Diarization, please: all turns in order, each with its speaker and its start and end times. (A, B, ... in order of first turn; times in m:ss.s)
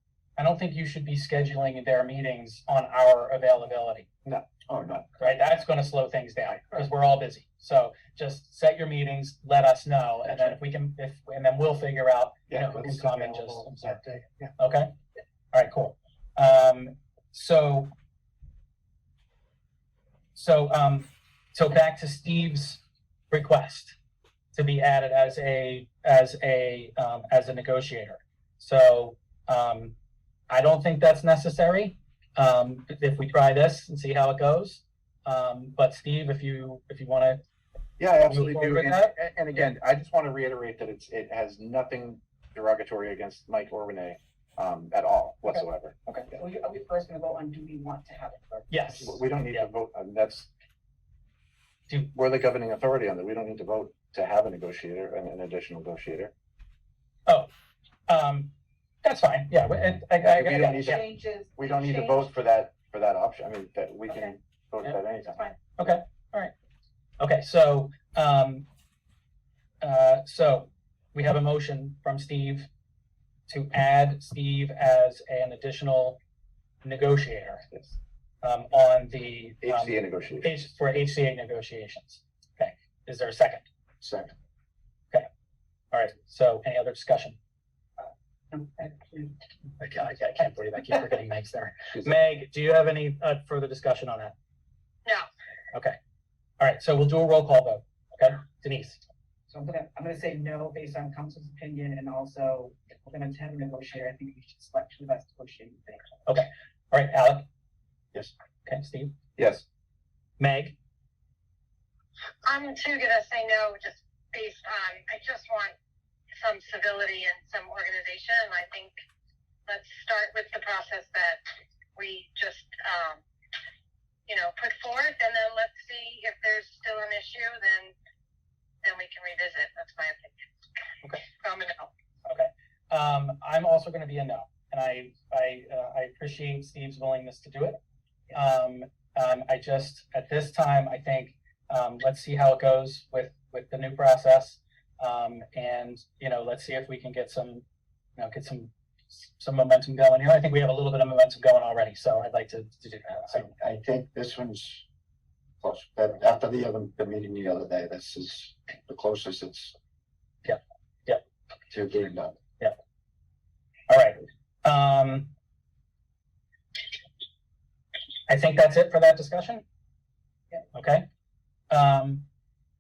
0:00.4-0:04.1 A
0:04.2-0:05.1 B
0:04.7-0:05.0 C
0:05.2-0:14.9 A
0:12.5-0:14.5 B
0:15.5-0:17.9 A
0:20.3-0:24.0 A
0:24.5-0:29.9 A
0:30.5-0:37.4 A
0:38.0-0:46.2 B
0:38.2-0:39.1 A
0:45.5-0:46.3 A
0:46.3-0:48.8 D
0:48.7-0:49.7 A
0:49.0-0:50.5 B
0:52.1-0:56.3 B
0:58.1-0:58.5 A
0:59.0-1:01.0 A
1:00.2-1:05.5 B
1:00.9-1:02.2 D
1:04.1-1:04.3 D
1:05.8-1:06.5 A
1:07.2-1:08.6 A
1:09.8-1:12.7 A
1:13.5-1:16.2 A
1:16.8-1:17.7 A
1:18.4-1:23.6 A
1:19.6-1:20.6 B
1:24.0-1:24.3 C
1:25.9-1:27.4 A
1:28.0-1:29.4 D
1:29.8-1:34.3 A
1:35.7-1:36.0 A
1:36.6-1:39.0 A
1:39.5-1:46.1 D
1:46.2-1:47.4 A
1:48.6-1:49.1 A
1:49.4-1:49.6 B
1:50.4-1:50.7 A
1:52.4-1:55.7 E
1:56.4-1:58.9 E
1:59.7-2:01.4 E
2:02.0-2:03.2 E
2:04.3-2:07.9 E
2:08.8-2:10.3 E
2:11.4-2:11.9 E
2:12.2-2:17.8 A
2:18.3-2:27.6 A
2:28.2-2:33.5 A
2:33.5-2:34.8 C
2:35.6-2:39.7 C
2:40.4-2:41.2 A
2:41.7-2:42.4 C
2:43.9-2:45.3 A
2:48.3-2:49.6 A
2:50.7-2:51.0 A
2:51.7-2:52.2 A